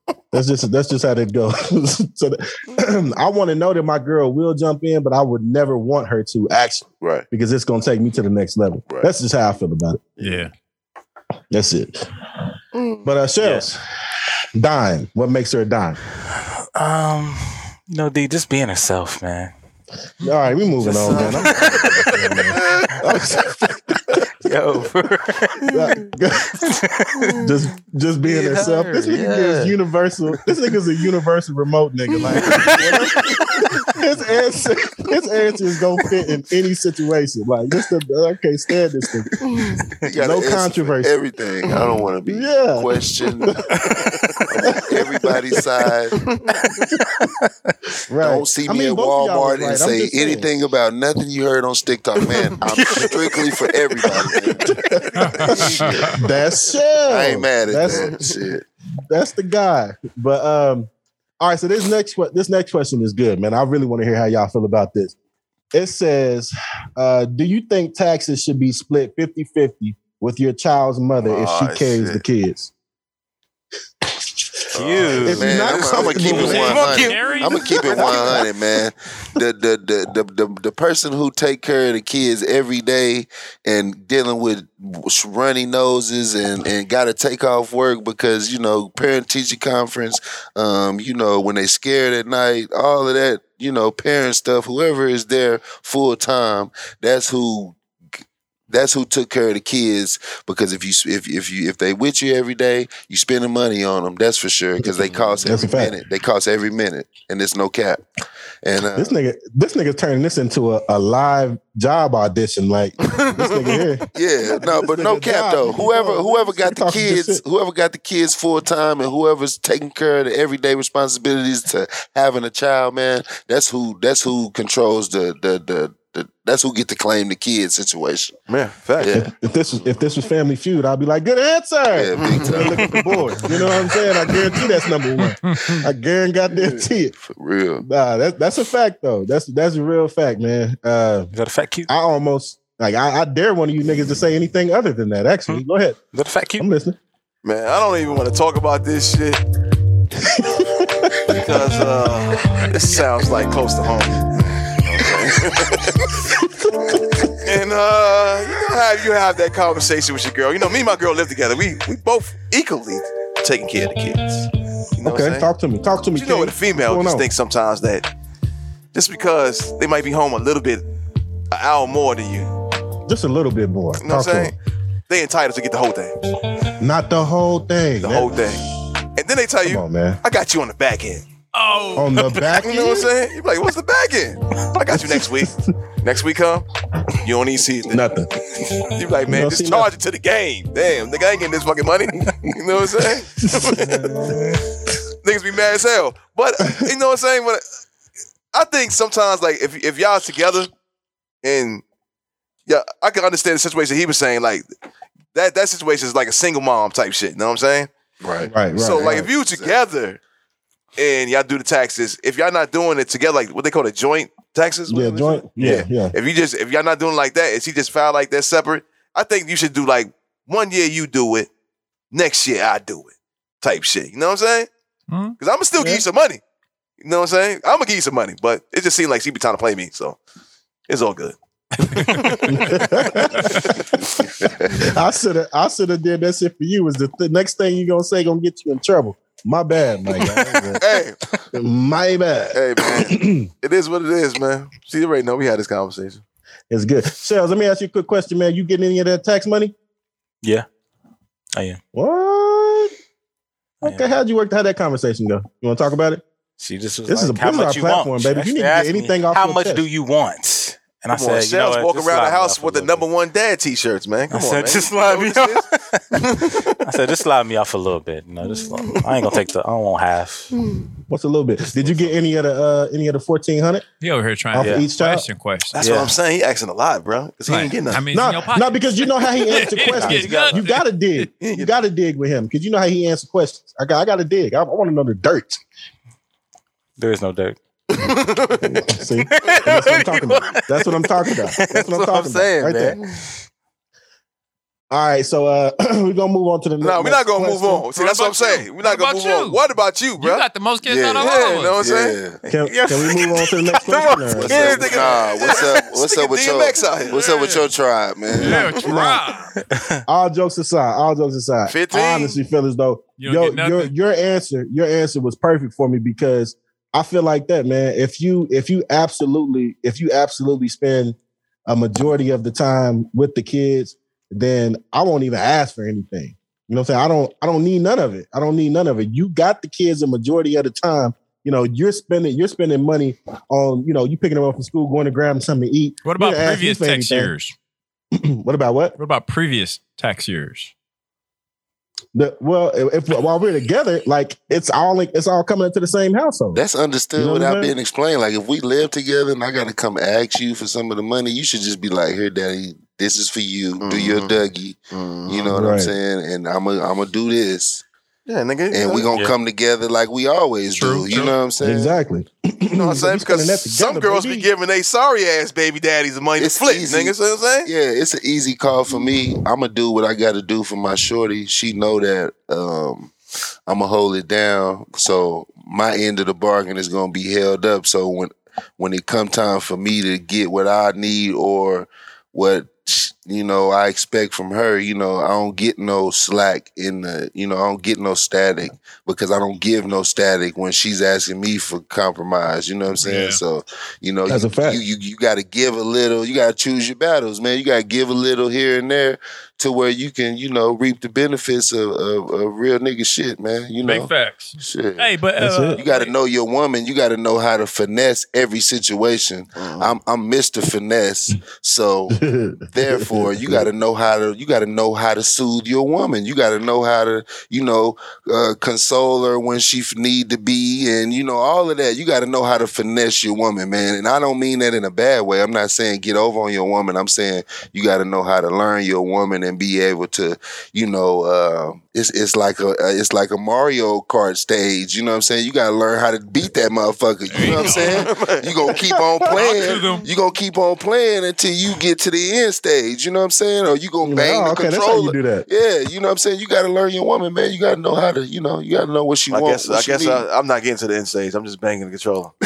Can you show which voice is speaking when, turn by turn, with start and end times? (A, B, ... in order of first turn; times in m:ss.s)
0:00.3-0:10.2 A
0:10.2-0:10.5 B
0:11.5-0:12.0 A
0:12.8-0:13.0 C
0:13.0-0:13.8 A
0:13.4-0:13.7 D
0:14.5-0:16.0 A
0:16.8-0:19.5 D
0:20.2-0:23.8 A
0:20.8-0:22.5 D
0:24.4-0:26.0 D
0:25.7-0:26.6 A
0:26.7-0:27.4 D
0:27.4-0:39.3 A
0:28.2-0:29.8 D
0:40.1-0:43.6 E
0:40.1-0:41.1 A
0:42.2-0:42.9 A
0:44.5-0:46.2 E
0:44.6-0:45.0 A
0:48.1-0:50.5 A
0:48.2-0:54.7 E
0:54.6-0:55.5 A
0:55.2-0:56.2 B
0:55.4-0:56.2 E
0:56.2-0:58.1 A
0:57.1-0:58.6 E
0:59.1-1:00.9 A
1:01.4-1:05.1 A
1:05.7-1:12.7 A
1:11.2-1:12.2 C
1:14.7-1:18.2 D
1:14.8-1:16.6 C
1:15.1-1:37.8 E
1:15.2-1:16.8 A
1:16.2-1:18.2 B
1:38.7-1:48.0 E
1:45.4-1:46.0 A
1:48.6-1:49.1 E
1:49.0-1:57.4 A
1:53.2-1:53.7 C
1:54.1-2:08.4 E
2:08.5-2:09.2 C
2:09.0-2:09.3 E
2:09.1-2:17.1 A
2:11.9-2:13.0 E
2:12.2-2:12.6 C
2:12.9-2:14.0 D
2:15.4-2:15.8 B
2:16.5-2:17.8 E
2:17.8-2:21.3 A
2:21.3-2:21.9 D
2:21.9-2:26.0 A
2:25.5-2:26.7 D
2:26.6-2:27.0 A
2:27.4-2:29.4 C
2:30.4-2:31.3 A
2:31.3-2:36.0 C
2:36.4-2:37.2 A
2:37.4-2:45.5 C
2:45.0-2:47.3 A
2:46.1-2:48.1 C
2:48.9-2:50.8 C
2:51.5-2:52.5 C
2:53.1-2:54.5 A
2:54.0-2:54.5 C
2:55.1-2:56.1 C
2:56.8-2:58.4 A
2:58.0-3:01.2 C
2:59.6-3:00.2 A
3:01.5-3:02.5 B
3:01.9-3:03.1 A
3:02.6-3:06.6 C
3:04.9-3:05.5 A
3:07.2-3:08.0 C
3:07.9-3:08.3 A
3:08.9-3:13.8 C
3:09.2-3:09.9 A
3:13.4-3:14.3 A
3:13.8-3:14.5 D
3:15.2-3:17.6 C
3:18.5-3:20.7 C
3:21.4-3:21.8 C
3:22.7-3:24.7 C
3:25.3-3:27.9 C
3:28.2-3:28.5 E
3:28.5-3:29.3 A
3:28.7-3:30.2 C
3:29.4-3:29.8 E
3:31.0-3:41.5 C
3:34.9-3:36.1 A
3:42.1-3:44.7 C
3:45.1-3:45.4 B
3:45.4-3:46.4 C
3:45.8-3:46.0 A
3:47.0-3:50.2 C
3:50.9-3:53.5 C
3:52.5-3:54.1 A
3:54.8-4:00.8 A
4:00.8-4:01.2 C
4:01.5-4:03.5 A
4:02.5-4:06.2 C
4:06.7-4:09.7 A
4:10.4-4:10.7 D
4:11.6-4:11.8 D
4:11.9-4:12.9 A
4:13.8-4:14.2 D
4:13.8-4:16.2 A
4:16.6-4:23.0 D
4:17.1-4:19.8 A
4:21.1-4:26.6 C
4:24.3-4:26.0 D
4:26.8-4:30.5 D
4:31.1-4:33.8 A
4:31.7-4:32.1 D
4:34.0-4:35.8 B
4:34.5-4:35.2 A
4:34.6-4:34.9 D
4:35.7-4:38.0 C
4:35.8-4:36.1 D
4:37.5-4:41.2 B
4:38.1-4:45.6 A
4:40.0-4:40.6 C
4:41.4-4:41.7 C
4:47.0-4:48.2 D
4:48.9-4:53.0 A
4:49.1-4:53.0 D
4:54.9-4:57.9 A
4:56.8-5:00.4 C
4:58.0-4:59.6 B
5:00.2-5:01.8 B
5:00.8-5:02.4 E
5:01.2-5:02.2 C
5:02.4-5:05.2 D
5:02.5-5:04.8 A
5:04.4-5:08.7 E
5:04.4-5:07.5 C
5:07.1-5:07.6 B
5:08.4-5:09.5 B
5:08.8-5:09.2 A
5:09.7-5:10.0 D
5:10.1-5:21.2 A
5:11.7-5:12.4 C
5:13.2-5:13.9 B
5:21.7-5:37.3 A
5:36.0-5:37.5 B
5:38.2-5:38.9 A
5:39.0-5:40.7 B
5:42.1-5:46.6 A
5:46.5-5:57.8 E
5:47.2-5:47.7 A
5:53.8-5:54.3 C
5:54.9-5:55.5 C
5:55.5-5:56.0 A
5:58.3-5:59.1 C
5:58.7-6:02.0 E
6:00.7-6:01.3 B
6:01.6-6:04.5 A
6:02.7-6:07.7 C
6:06.4-6:13.1 E
6:13.7-6:45.1 E
6:33.0-6:33.4 B
6:34.3-6:34.8 A
6:43.8-6:46.1 B
6:45.4-6:45.8 A
6:45.8-6:52.2 E
6:49.6-6:49.9 C
6:52.1-6:53.7 A
6:52.7-7:30.2 E
7:17.3-7:18.0 B
7:17.6-7:18.5 C
7:19.3-7:20.0 B
7:24.0-7:25.4 A
7:29.3-7:32.3 C